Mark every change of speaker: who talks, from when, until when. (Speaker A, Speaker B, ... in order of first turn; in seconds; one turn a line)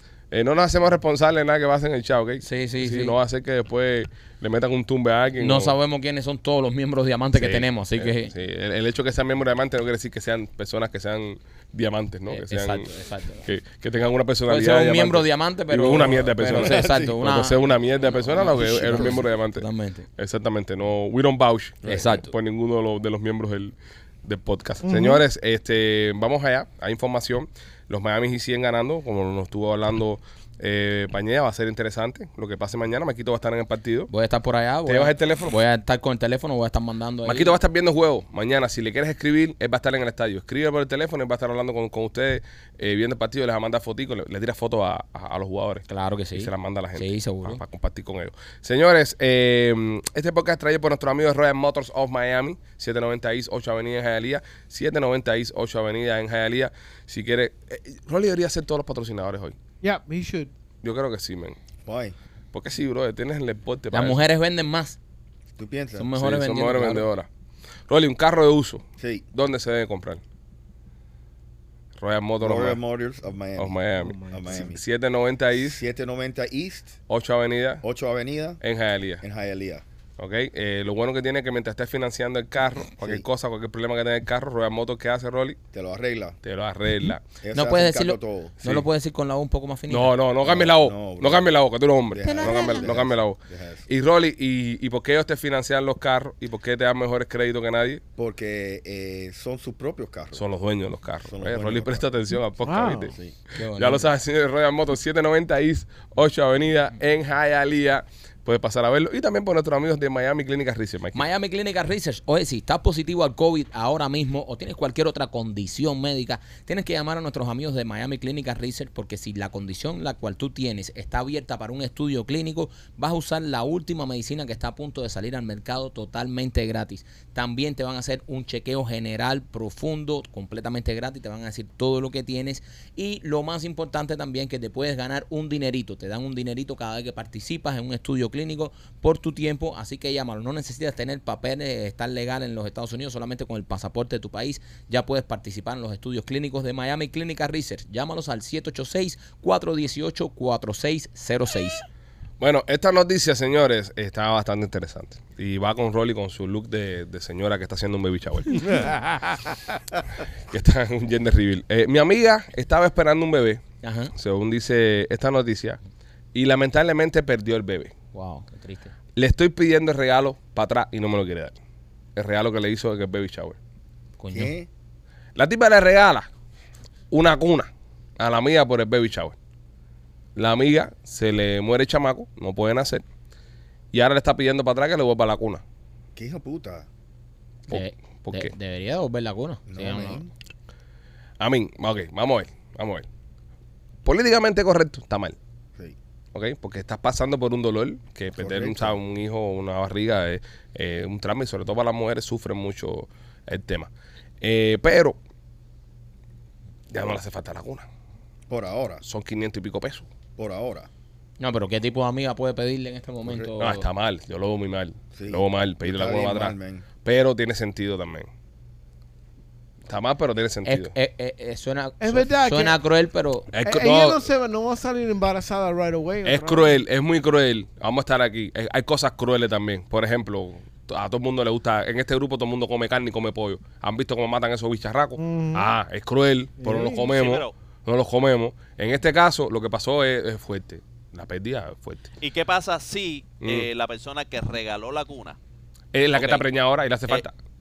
Speaker A: 0.3-5.7
Speaker B: 2.4-3.1
Speaker B: 5.4-8.3
Speaker A: 7.3-12.9
Speaker B: 12.3-13.4
Speaker A: 13.4-34.1
Speaker B: 14.5-17.6
Speaker C: 16.5-17.2
Speaker B: 18.1-20.1
Speaker C: 18.4-19.2
Speaker C: 21.8-22.2
Speaker D: 24.8-25.2
Speaker B: 34.1-37.5
Speaker A: 34.9-35.5
Speaker A: 37.2-59.5
Speaker B: 45.9-47.6
Speaker D: 59.8-60.5
Speaker A: 60.8-61.6
Speaker C: 61.8-62.1
Speaker A: 62.5-64.2
Speaker B: 63.9-65.0
Speaker C: 65.5-66.1
Speaker B: 66.0-67.0
Speaker A: 66.1-67.3
Speaker A: 67.9-70.2
Speaker C: 69.0-69.2
Speaker A: 72.0-72.8
Speaker C: 72.4-74.8
Speaker A: 73.6-75.8
Speaker D: 74.0-74.3
Speaker C: 75.6-76.9
Speaker A: 77.1-77.8
Speaker C: 77.8-78.6
Speaker A: 78.6-79.2
Speaker C: 79.2-79.8
Speaker A: 80.2-85.6
Speaker C: 83.0-83.2
Speaker C: 85.7-86.4
Speaker A: 86.4-87.2
Speaker C: 87.4-88.6
Speaker B: 87.5-90.1
Speaker A: 89.9-98.0
Speaker C: 90.4-91.5
Speaker C: 92.1-93.8
Speaker B: 92.5-92.8
Speaker C: 98.2-100.5
Speaker A: 100.3-103.1
Speaker C: 101.2-102.0
Speaker D: 102.6-103.1
Speaker C: 103.1-103.3
Speaker B: 103.6-104.0
Speaker A: 103.8-111.2
Speaker B: 111.1-151.8
Speaker A: 152.4-158.9
Speaker D: 158.6-159.3
Speaker A: 160.5-163.6
Speaker B: 163.8-164.1
Speaker A: 164.1-165.8
Speaker A: 166.3-167.9
Speaker B: 168.1-168.9
Speaker A: 169.2-171.6
Speaker A: 172.2-173.6
Speaker B: 174.2-174.5
Speaker C: 174.3-174.7
Speaker A: 175.3-176.3
Speaker A: 177.1-179.3
Speaker A: 180.3-183.0
Speaker A: 183.9-185.6
Speaker C: 186.2-186.9
Speaker A: 187.7-188.5
Speaker B: 187.7-190.2
Speaker C: 189.7-190.3
Speaker A: 191.4-193.1
Speaker A: 194.0-195.3
Speaker A: 196.3-205.2
Speaker C: 198.4-198.9
Speaker A: 206.9-207.8
Speaker C: 208.5-209.0
Speaker A: 209.0-210.1
Speaker C: 210.4-210.9
Speaker B: 211.4-213.8
Speaker C: 213.2-213.5
Speaker A: 213.6-218.3
Speaker C: 215.1-216.8
Speaker A: 219.9-220.9
Speaker B: 220.6-223.5
Speaker D: 222.0-222.8
Speaker A: 223.5-224.2
Speaker D: 223.6-226.7
Speaker A: 226.2-242.1
Speaker D: 235.2-235.7
Speaker D: 236.6-237.1
Speaker E: 237.1-237.5
Speaker E: 242.2-245.4
Speaker A: 245.9-247.3
Speaker E: 246.1-246.4